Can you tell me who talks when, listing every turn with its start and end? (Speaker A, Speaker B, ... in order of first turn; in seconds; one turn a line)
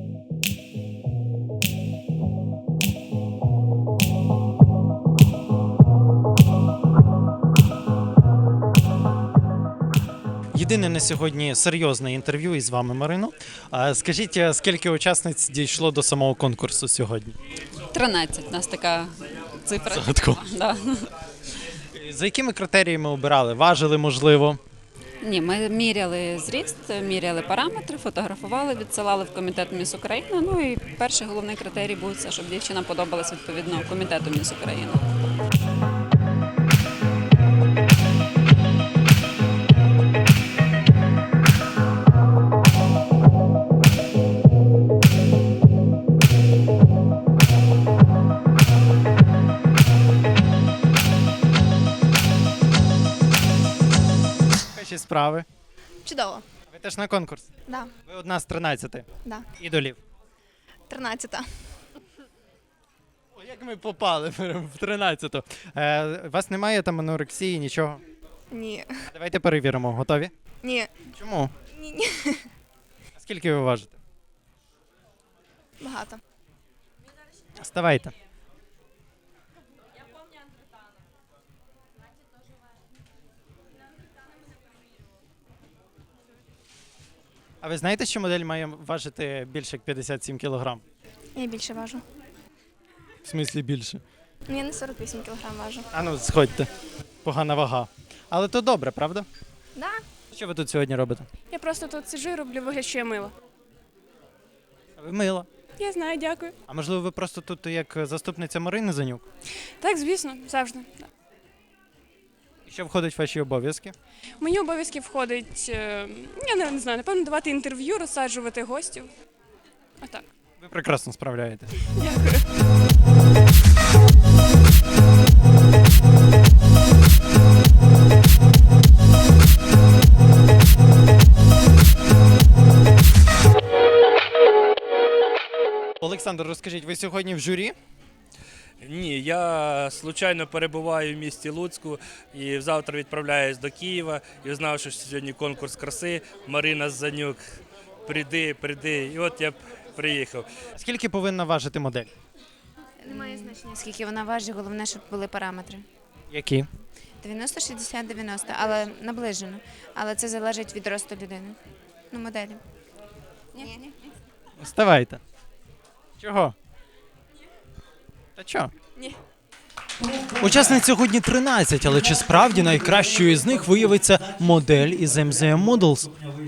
Speaker A: 10.5-17.3
Speaker B: 17.9-21.0
Speaker A: 19.9-20.4
Speaker A: 21.9-24.6
Speaker B: 25.2-35.0
Speaker A: 54.7-55.5
Speaker C: 56.0-56.4
Speaker A: 56.7-57.5
Speaker A: 58.0-59.0
Speaker A: 59.6-60.0
Speaker C: 60.9-61.5
Speaker A: 63.3-68.0
Speaker C: 68.5-68.9
Speaker A: 69.1-70.3
Speaker C: 70.6-70.9
Speaker A: 71.1-71.5
Speaker C: 71.7-72.4
Speaker A: 73.1-74.0
Speaker C: 75.8-76.2
Speaker A: 77.6-78.1
Speaker A: 87.6-90.8
Speaker C: 91.3-92.0
Speaker A: 93.2-94.0
Speaker C: 94.5-95.8
Speaker A: 95.9-96.7
Speaker A: 97.2-99.3
Speaker C: 99.8-100.0
Speaker A: 100.3-101.3
Speaker D: 101.5-103.3
Speaker A: 105.0-105.5
Speaker D: 105.8-106.5
Speaker A: 106.7-109.2
Speaker D: 109.8-111.1
Speaker A: 112.7-113.9
Speaker D: 114.4-119.1
Speaker D: 120.0-120.3
Speaker A: 120.6-121.7
Speaker D: 121.8-122.5
Speaker A: 136.0-137.7
Speaker E: 138.8-147.4
Speaker E: 148.1-150.5
Speaker A: 150.7-152.1
Speaker F: 153.0-155.8
Speaker A: 156.3-156.7
Speaker F: 157.2-161.6
Speaker F: 162.1-162.6
Speaker F: 163.6-163.8
Speaker A: 164.6-165.2
Speaker A: 166.2-166.5
Speaker A: 168.3-168.7
Speaker A: 170.4-176.1